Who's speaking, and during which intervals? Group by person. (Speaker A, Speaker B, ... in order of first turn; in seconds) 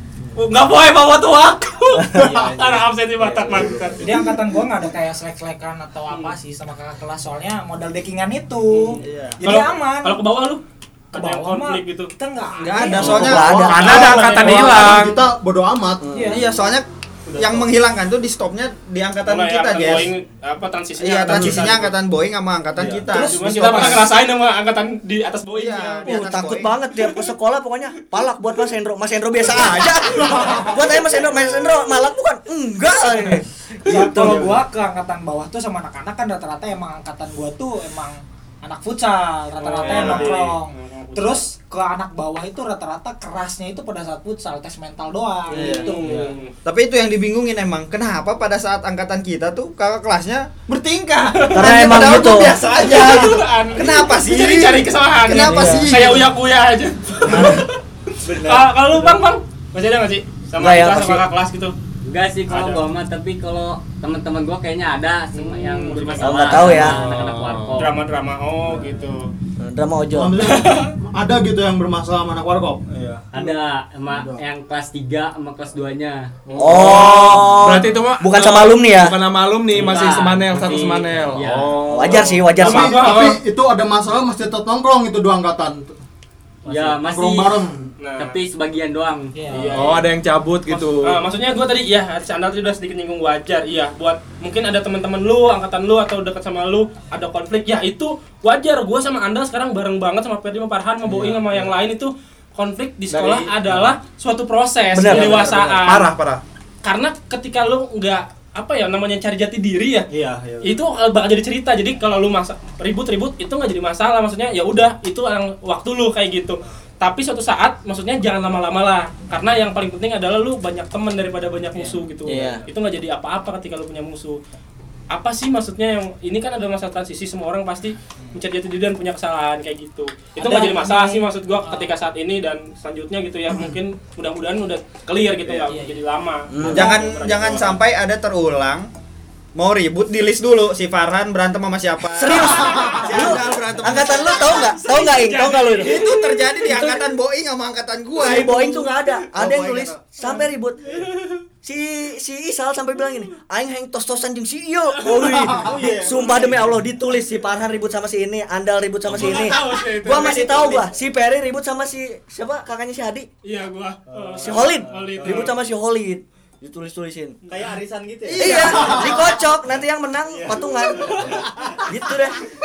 Speaker A: 0.3-4.1, 9.4-12.1, 19.2-21.9, 23.2-26.5, 39.6-41.4, 45.6-46.5, 51.4-51.7, 52.7-61.7, 62.5-62.8, 65.3-66.9, 67.8-69.3, 70.4-70.9, 82.1-83.4, 88.0-88.3, 89.5-90.0, 90.7-106.1, 106.8-110.1, 110.6-124.4, 125.1-137.8, 144.4-146.5, 155.0-155.3, 159.1-160.9, 163.4-165.5, 168.4-169.0
Speaker B: 2.1-4.0, 9.0-9.3, 17.3-17.7, 22.8-23.1, 33.9-34.6, 39.8-40.2, 45.5-46.4, 55.5-55.9, 57.3-57.6, 58.2-59.1, 72.9-73.3, 76.5-77.2, 86.7-86.9, 101.0-101.7, 103.2-103.9, 105.1-105.7, 110.1-110.8, 155.6-156.8, 159.1-159.5, 164.1-165.5, 167.5-169.1, 170.3-171.4
Speaker C: 4.0-10.2, 11.1-13.3, 16.1-16.4, 23.1-24.1, 33.9-46.1, 89.3-89.8, 121.7-122.1, 130.4-131.9, 135.7-136.0
Speaker D: 9.0-9.4, 12.6-14.9, 16.3-16.8, 17.4-20.1, 21.0-24.0, 25.5-26.7, 39.8-40.3, 46.6-56.3, 136.7-138.9, 139.6-144.9, 145.8-150.0, 168.4-168.7
Speaker E: 13.0-14.0, 16.0-16.4, 26.0-34.4, 51.5-52.6, 60.6-61.2, 66.2-67.0, 69.6-70.4, 76.6-79.1, 81.9-83.0, 103.1-103.5, 104.9-105.7, 122.2-122.6, 136.5-137.0, 142.1-146.0, 146.7-147.0, 148.2-150.8, 151.6-163.3, 164.4-167.3, 168.4-171.2, 171.8-172.4
Speaker F: 13.0-16.1, 70.1-72.8, 74.1-74.4, 82.5-85.9, 86.9-87.9
Speaker G: 13.5-15.2, 66.7-67.8, 76.5-82.4, 89.7-91.2, 105.8-106.4
Speaker H: 62.0-68.0, 73.3-76.3, 79.7-81.8, 86.7-87.6, 88.2-89.3